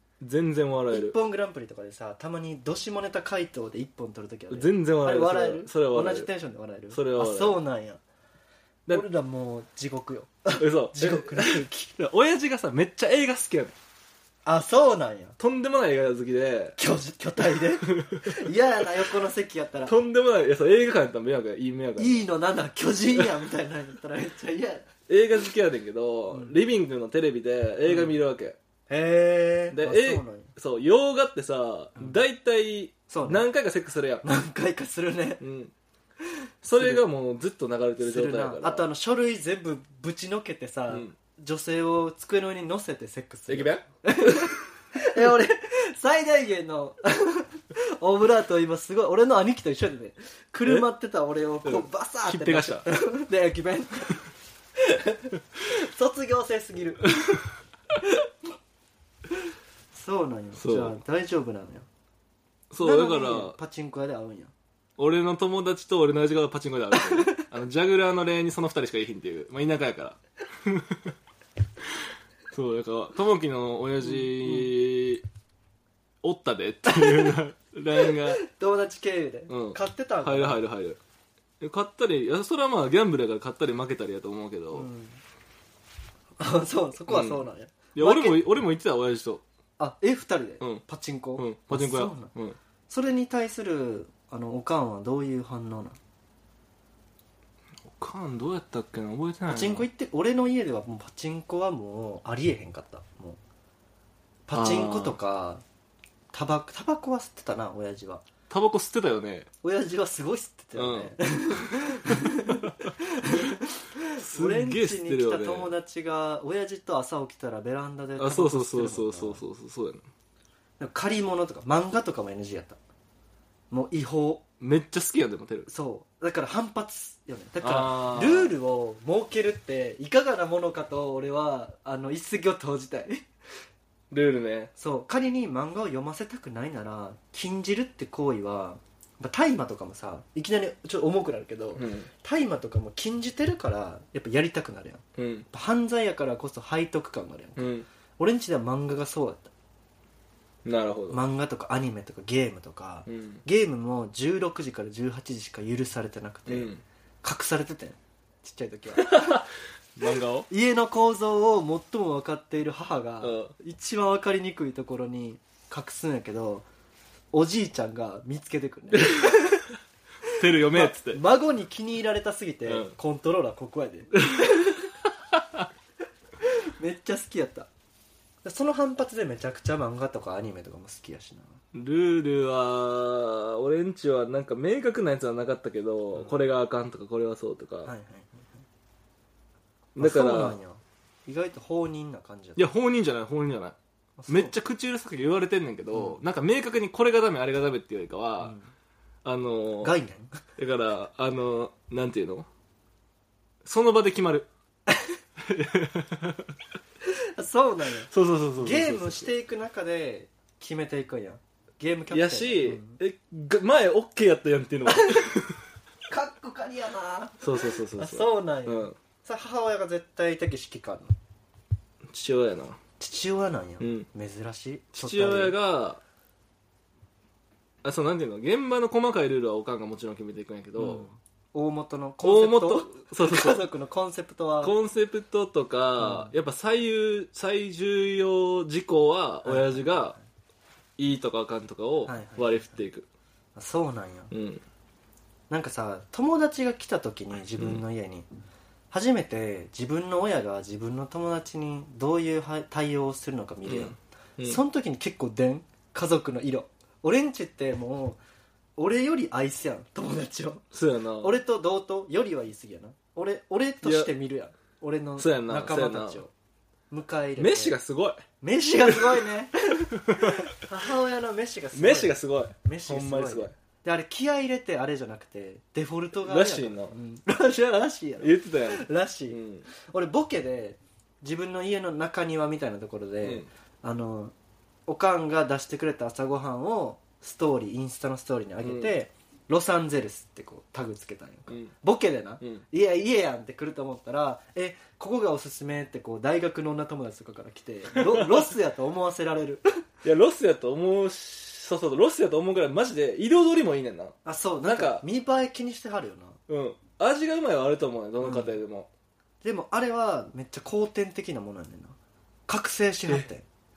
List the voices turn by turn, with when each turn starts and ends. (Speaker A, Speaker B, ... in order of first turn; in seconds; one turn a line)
Speaker A: 0.2-1.1
Speaker B: 0.9-8.0
Speaker A: 4.5-6.3
Speaker A: 6.9-7.6
Speaker B: 8.9-11.9
Speaker A: 10.6-13.8
Speaker B: 14.4-15.4
Speaker A: 15.4-16.8
Speaker B: 16.8-20.0
Speaker A: 17.5-18.5
Speaker A: 19.9-22.2
Speaker B: 22.0-24.9
Speaker A: 25.1-28.6
Speaker B: 27.9-28.1
Speaker B: 28.9-30.5
Speaker A: 29.7-34.2
Speaker B: 33.1-33.5
Speaker B: 34.2-35.4
Speaker A: 35.4-35.7
Speaker A: 36.6-38.9
Speaker B: 36.7-37.0
Speaker B: 38.0-57.4
Speaker A: 43.5-44.6
Speaker A: 51.6-52.9
Speaker B: 59.9-61.9
Speaker A: 60.6-61.0
Speaker A: 62.7-63.6
Speaker B: 62.8-64.5
Speaker A: 65.0-71.1
Speaker A: 71.8-75.2
Speaker B: 74.0-74.7
Speaker A: 76.2-78.4
Speaker B: 76.9-77.3
Speaker B: 78.0-80.6
Speaker A: 79.5-81.0
Speaker A: 81.6-84.9
Speaker B: 84.7-85.2
Speaker B: 86.4-88.4
Speaker A: 87.1-89.4
Speaker B: 89.8-92.3
Speaker A: 91.4-92.6
Speaker B: 92.9-96.0
Speaker A: 97.9-99.9
Speaker B: 99.5-103.4
Speaker B: 104.5-105.6
Speaker A: 104.5-105.2
Speaker B: 106.3-108.2
Speaker A: 108.5-109.5
Speaker B: 109.6-119.4
Speaker A: 110.8-112.8
Speaker A: 114.2-115.7
Speaker A: 118.2-120.0
Speaker B: 120.8-122.8
Speaker B: 123.7-124.4
Speaker A: 124.6-125.7
Speaker B: 125.7-133.3
Speaker A: 127.6-128.5
Speaker A: 134.1-134.7
Speaker B: 134.8-149.5
Speaker A: 141.8-142.1
Speaker A: 145.2-145.5
Speaker A: 147.6-147.9
Speaker A: 150.6-151.2
Speaker B: 151.1-159.4
Speaker A: 153.1-153.4
Speaker A: 156.5-156.8
Speaker A: 158.9-160.5
Speaker B: 160.5-166.7
Speaker A: 163.2-163.5
Speaker B: 167.3-169.7
Speaker A: 168.9-169.3
Speaker A: 170.4-171.2
Speaker B: 170.5-174.9
Speaker A: 172.7-172.9
Speaker A: 174.2-174.6
Speaker A: 175.3-175.6
Speaker B: 176.4-177.7
Speaker B: 178.4-181.6
Speaker A: 181.7-187.9
Speaker B: 187.8-188.6
Speaker A: 189.9-190.6
Speaker B: 190.0-192.7
Speaker A: 192.6-193.8
Speaker B: 194.2-194.6
Speaker A: 194.3-198.6
Speaker B: 195.9-196.2
Speaker B: 198.4-198.7
Speaker A: 199.2-199.9
Speaker B: 199.8-200.4
Speaker A: 200.6-202.5
Speaker A: 203.6-204.5
Speaker B: 204.9-205.1
Speaker A: 205.4-206.6
Speaker B: 207.1-213.0
Speaker A: 208.1-209.3
Speaker A: 212.1-215.6
Speaker B: 214.9-215.3
Speaker B: 216.1-221.1
Speaker A: 217.4-218.9
Speaker A: 222.1-222.8
Speaker B: 223.0-225.6
Speaker A: 223.8-224.1
Speaker A: 224.9-226.0
Speaker A: 227.8-231.1
Speaker B: 230.8-234.7
Speaker A: 232.2-233.6
Speaker A: 234.6-240.1
Speaker B: 236.0-236.3
Speaker B: 239.4-240.2
Speaker A: 241.0-243.1
Speaker B: 242.1-242.8
Speaker B: 243.6-244.3
Speaker A: 244.3-244.6
Speaker B: 245.5-248.3
Speaker B: 248.9-258.2
Speaker A: 253.6-254.6
Speaker B: 258.8-260.6
Speaker A: 260.7-261.4
Speaker B: 261.2-266.3
Speaker A: 263.8-264.1
Speaker A: 265.2-266.2
Speaker B: 266.9-267.8
Speaker A: 267.4-268.2
Speaker B: 268.4-284.3
Speaker A: 268.9-269.3
Speaker A: 270.1-270.5
Speaker A: 271.8-273.5
Speaker A: 276.2-276.9
Speaker A: 278.2-279.7
Speaker B: 284.9-299.6
Speaker A: 288.6-288.9
Speaker A: 297.9-298.5
Speaker A: 300.0-305.1
Speaker B: 304.2-306.4
Speaker A: 306.5-308.9
Speaker B: 308.2-308.5
Speaker B: 309.4-311.9
Speaker B: 312.5-313.4